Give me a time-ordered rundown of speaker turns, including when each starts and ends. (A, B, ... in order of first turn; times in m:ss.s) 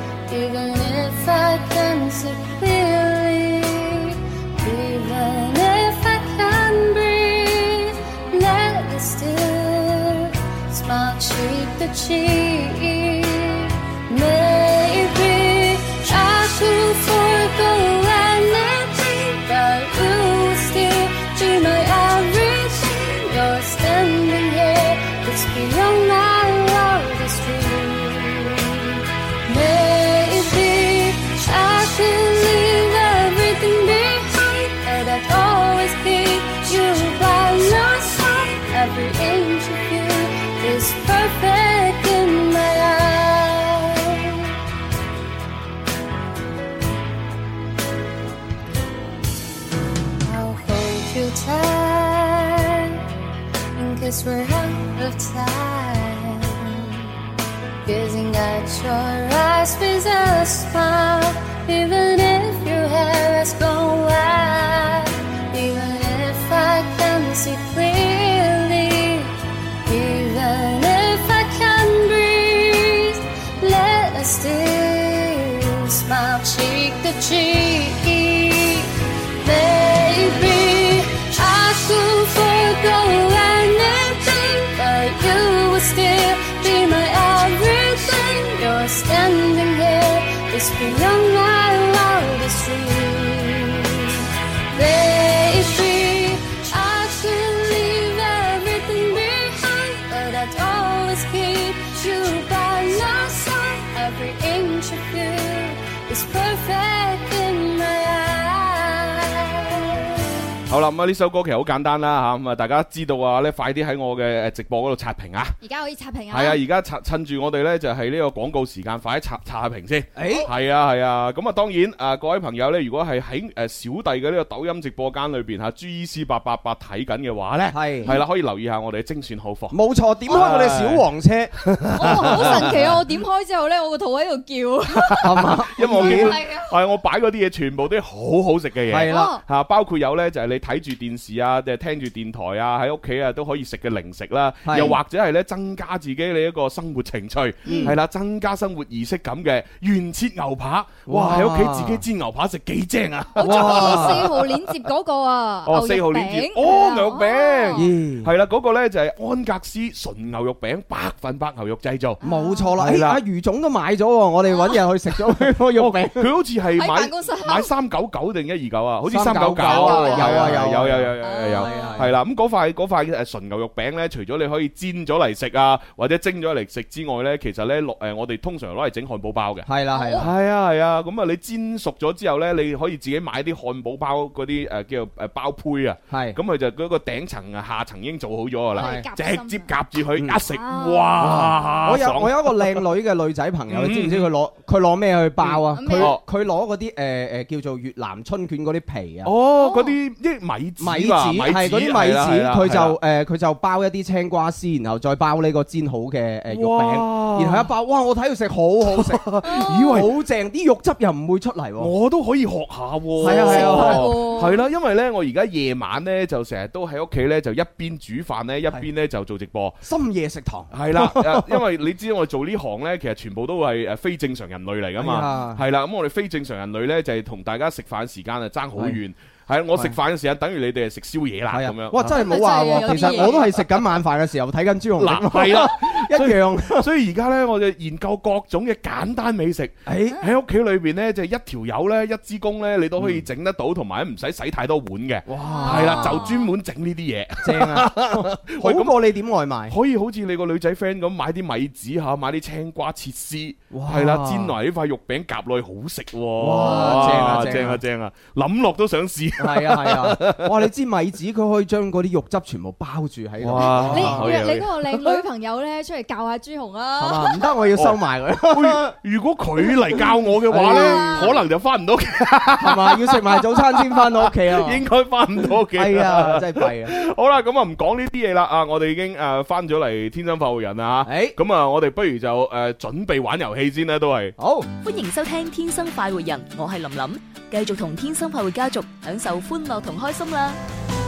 0:00.3-0:44.5 A
0:50.2-0:53.0 A
0:53.7-0:57.0 A
0:57.8-1:50.2 A
1:50.7-1:55.6 B
1:55.6-1:56.6 C
1:56.3-2:09.8 B
2:00.2-2:00.5 D
2:07.7-2:08.1 D
2:09.7-2:12.8 D
2:10.3-2:11.0 B
2:12.0-2:16.7 C
2:12.1-2:12.9 B
2:15.2-2:16.3 D
2:15.7-2:34.5 B
2:18.9-2:19.3 D
2:19.1-2:19.4 C
2:24.6-2:25.0 D
2:27.6-2:28.0 D
2:27.6-2:28.0 C
2:31.1-2:32.0 D
2:33.4-2:37.8 C
2:33.4-2:34.3 D
2:35.6-2:42.2 B
2:37.7-2:38.3 D
2:42.2-2:42.8 C
2:42.2-2:46.3 D
2:42.8-2:43.2 B
2:45.8-3:12.8 B
2:46.7-2:47.7 C
2:49.1-2:52.1 D
2:49.6-2:50.6 C
2:51.2-2:52.1 C
2:59.6-3:00.3 D
2:59.9-3:00.3 C
3:06.1-3:06.4 D
3:08.7-3:09.7 C
3:08.8-3:09.1 D
3:10.5-3:11.3 C
3:11.2-3:19.3 D
3:13.7-3:14.3 B
3:15.5-3:16.2 B
3:15.7-3:16.1 C
3:19.2-3:23.0 B
3:19.6-3:20.0 C
3:20.8-3:31.9 D
3:26.5-3:27.7 B
3:28.9-3:30.2 B
3:31.8-3:39.8 B
3:33.2-3:34.1 D
3:33.2-3:34.6 C
3:39.8-3:41.6 D
3:40.7-3:53.4 B
3:45.0-3:45.6 D
3:51.5-3:56.8 D
3:52.0-3:53.7 C
3:55.0-4:08.9 B
3:59.8-4:00.2 D
4:03.0-4:03.2 D
4:05.3-4:06.3 D
4:05.4-4:06.5 C
4:07.4-4:09.7 D
4:09.7-4:20.6 B
4:13.7-4:14.5 D
4:16.4-4:17.8 D
4:16.6-4:17.5 C
4:19.4-4:24.3 D
4:23.4-4:25.2 B
4:23.6-4:27.5 C
4:27.0-4:28.9 D
4:27.8-4:44.3 B
4:30.5-4:31.3 D
4:30.5-4:31.4 C
4:32.6-4:34.8 D
4:35.7-4:36.9 D
4:41.0-4:41.4 D
4:44.4-4:44.7 D
4:44.8-4:50.6 E